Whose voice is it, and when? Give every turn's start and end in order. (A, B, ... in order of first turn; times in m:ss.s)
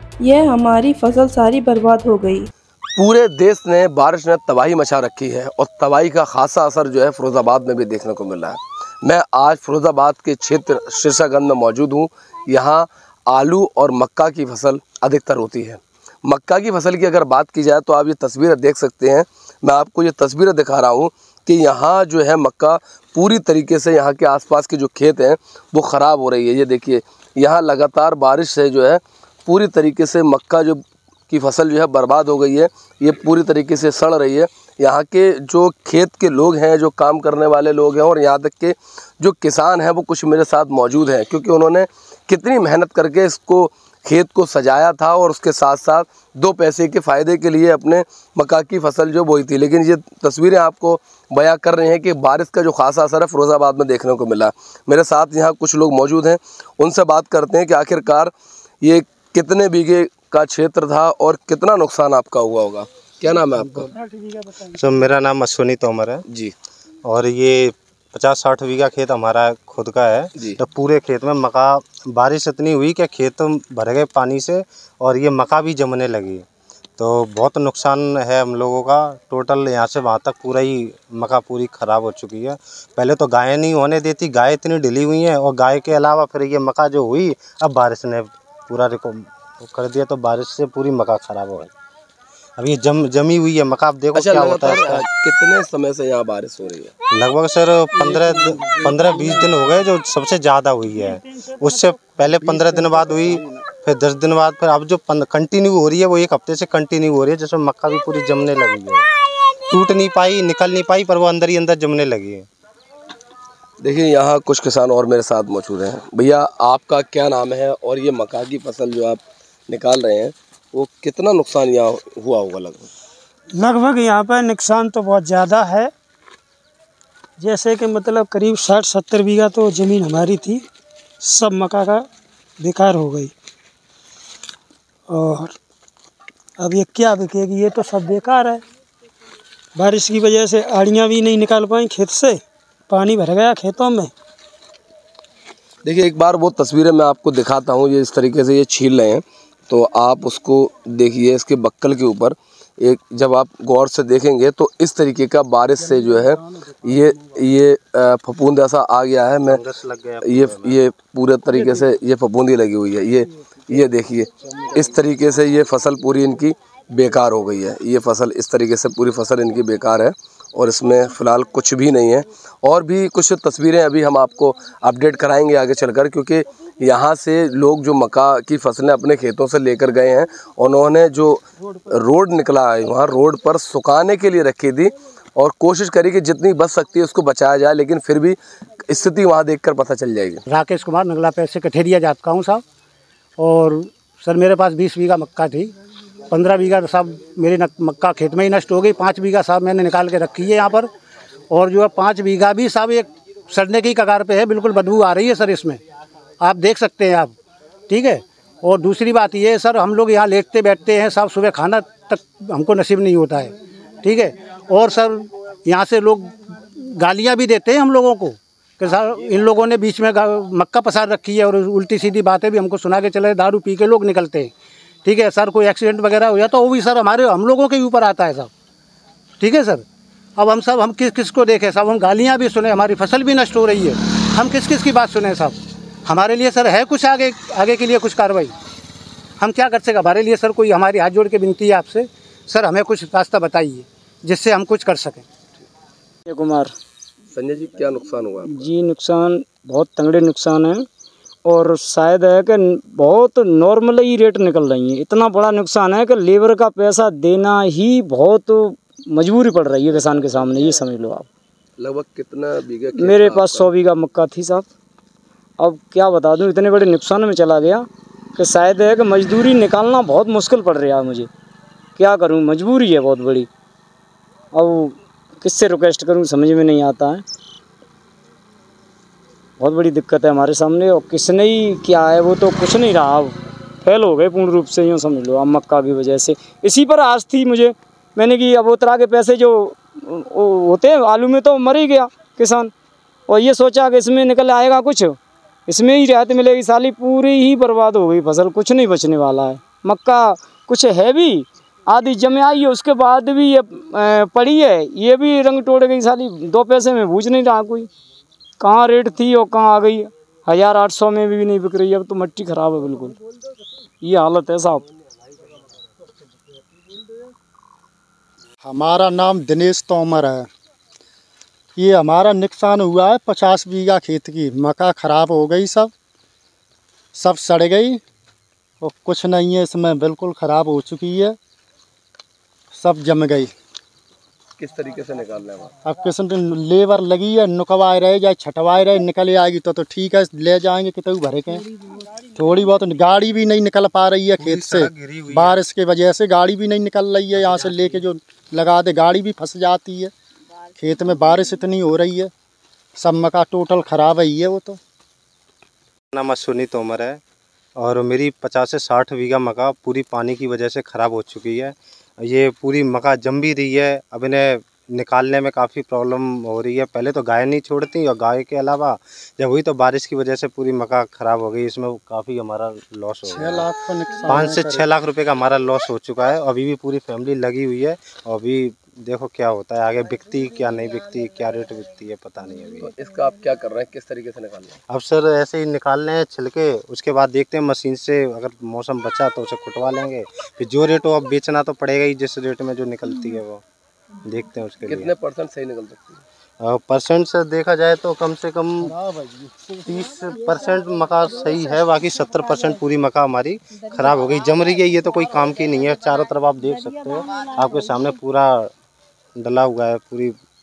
0:00.2-0:02.5 A
0:03.0-1:03.9 B
1:04.0-1:04.7 C
1:04.7-1:06.2 D
1:06.3-1:06.5 B
1:07.0-1:16.5 D
1:17.0-1:31.7 D
1:32.6-1:35.0 D
1:34.2-1:36.9 B
1:37.1-1:49.1 D
1:38.1-1:39.5 E
1:41.3-1:41.7 C
1:42.5-1:43.4 E
1:49.7-1:52.5 D
1:53.8-2:02.9 B
2:03.6-2:05.9 C
2:07.4-2:10.6 C
2:11.2-2:12.1 C
2:12.6-2:13.3 C
2:15.1-2:15.6 C
2:16.6-2:18.6 C
2:19.8-2:24.1 C
2:25.8-2:39.6 B
2:39.5-2:40.8 D
2:40.2-3:10.4 B
3:10.5-3:12.6 F
3:13.4-3:15.7 F
3:16.3-3:20.9 F
3:21.5-3:25.8 F
3:26.4-3:27.4 F
3:27.9-3:44.5 F
3:45.0-3:48.5 F
3:49.4-3:49.8 F
3:50.4-3:58.5 F
3:59.4-4:05.3 F
4:06.3-4:06.7 G
4:07.3-4:08.7 B
4:08.5-4:10.8 G
4:11.4-4:21.3 G
4:21.8-4:23.7 B
4:23.0-4:24.7 G
4:25.6-4:27.9 G
4:28.4-4:31.3 G
4:32.0-4:33.5 G
4:34.5-4:37.2 G
4:39.6-4:52.7 G
4:53.3-5:07.9 G
5:08.6-5:13.2 G
5:14.0-5:14.9 G
5:18.6-5:20.5 E
5:21.8-5:25.9 E
5:27.2-5:28.0 E
5:28.8-5:31.4 E
5:32.7-5:33.5 E
5:34.6-5:35.7 B
5:35.8-5:41.7 E
5:42.2-5:50.1 E
5:44.4-5:45.6 D
5:50.8-5:52.3 E
5:53.0-5:54.8 E
5:56.1-5:57.2 D
5:57.8-6:13.7 D
6:13.3-6:13.8 E
6:13.9-6:14.8 C
6:14.2-6:22.9 D
6:22.8-6:24.8 B
6:24.9-6:33.6 D
6:34.2-6:35.1 D
6:34.9-6:36.2 B
6:36.6-6:39.0 D
6:39.8-6:48.7 D
6:49.4-6:50.4 D